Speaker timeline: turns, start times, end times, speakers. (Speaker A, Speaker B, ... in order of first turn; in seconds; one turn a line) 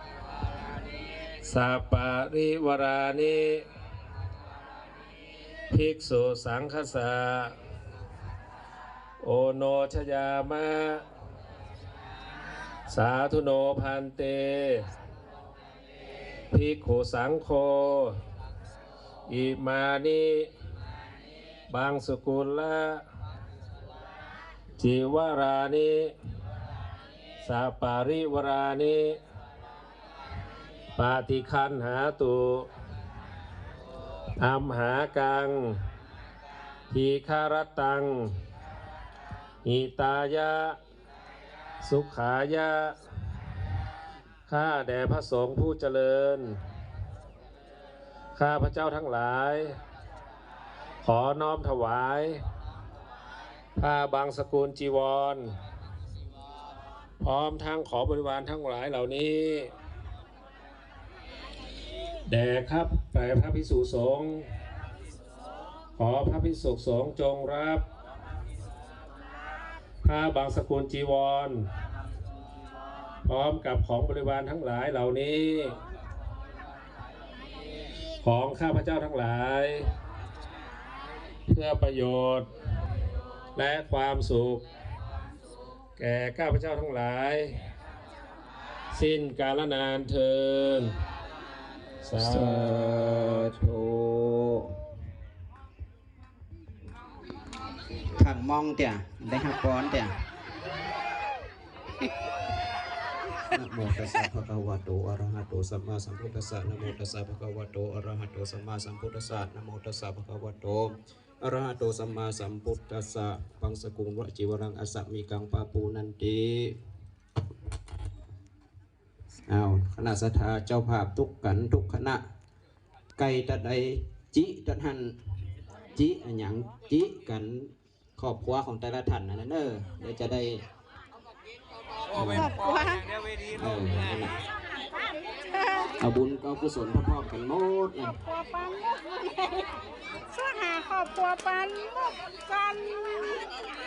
Speaker A: 1.4-3.7
Speaker A: 5.7-7.6
Speaker A: 9.2-11.0
Speaker A: 12.9-14.9
Speaker A: 16.5-18.2
Speaker A: 19.3-20.5
Speaker A: 21.7-23.0
Speaker A: 24.8-26.1
Speaker A: 27.4-29.2
Speaker A: 31.0-32.7
Speaker A: 34.4-35.8
Speaker A: 36.9-38.4
Speaker A: 39.6-40.8
Speaker A: 41.8-43.0
Speaker A: 44.5-46.6
Speaker A: 48.4-49.8
Speaker A: 51.0-52.4
Speaker A: 53.8-55.5
Speaker A: 57.2-59.7
Speaker A: 62.3-64.5
Speaker A: 66.0-67.8
Speaker A: 70.0-71.7
Speaker A: 73.3-75.8
Speaker A: 78.2-79.9
Speaker A: 81.5-82.5
Speaker A: 83.6-84.7
Speaker A: 86.0-87.6
Speaker A: 88.9-91.0
Speaker A: 92.0-93.5
Speaker B: 92.2-94.8
Speaker B: 98.1-100.2
Speaker B: 103.5-116.8
Speaker B: 119.5-122.2
Speaker B: 123.2-125.2
Speaker B: 125.9-130.7
Speaker B: 132.1-132.6
Speaker C: 132.2-133.1
Speaker B: 133.5-134.4
Speaker C: 135.5-136.0
Speaker B: 136.0-138.2
Speaker C: 138.2-139.7
Speaker C: 140.3-143.5